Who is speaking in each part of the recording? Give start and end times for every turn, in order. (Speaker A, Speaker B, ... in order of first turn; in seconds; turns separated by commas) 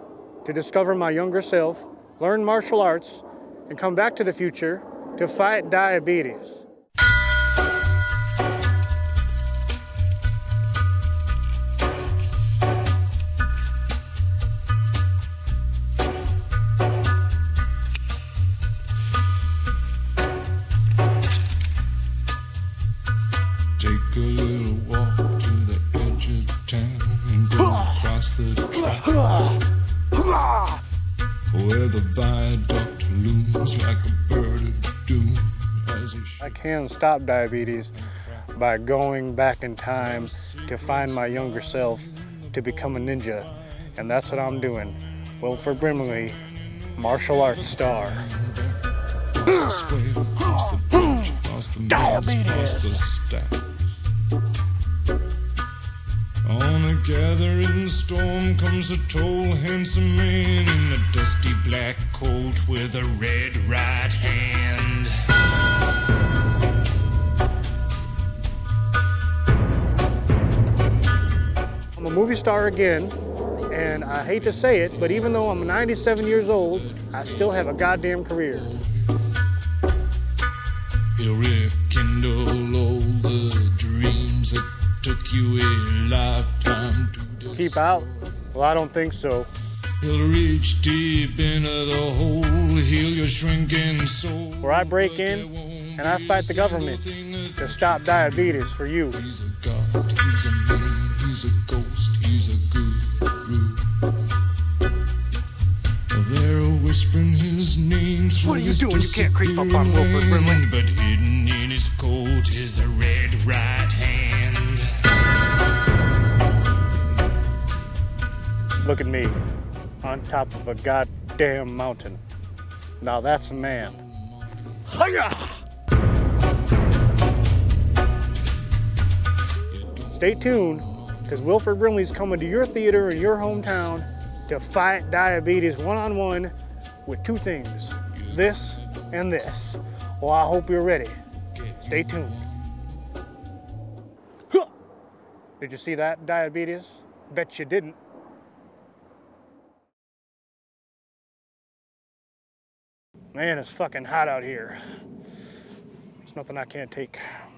Speaker A: 0.4-6.6, Speaker B: 23.8-29.4, Speaker B: 31.5-36.5, Speaker A: 36.4-37.9, Speaker A: 38.5-46.4, Speaker B: 40.3-42.3, Speaker A: 47.0-48.3, Speaker B: 47.6-48.8, Speaker B: 49.3-53.8, Speaker B: 56.4-65.3, Speaker A: 72.0-73.2, Speaker A: 73.7-78.8, Speaker B: 74.6-79.3, Speaker B: 81.1-88.4, Speaker A: 87.5-89.5, Speaker B: 90.0-104.0, Speaker A: 94.6-97.0, Speaker A: 97.6-99.2, Speaker B: 106.1-115.1, Speaker A: 108.4-110.6, Speaker A: 118.8-119.4, Speaker A: 120.0-122.2, Speaker A: 123.0-124.0, Speaker A: 124.9-125.5, Speaker B: 129.7-130.2, Speaker A: 130.1-136.5, Speaker B: 130.9-131.3, Speaker B: 133.3-134.0, Speaker A: 137.0-141.2, Speaker B: 138.2-139.1, Speaker B: 141.5-142.9, Speaker A: 141.8-142.4, Speaker A: 145.6-148.0, Speaker A: 153.3-154.8, Speaker A: 156.2-157.2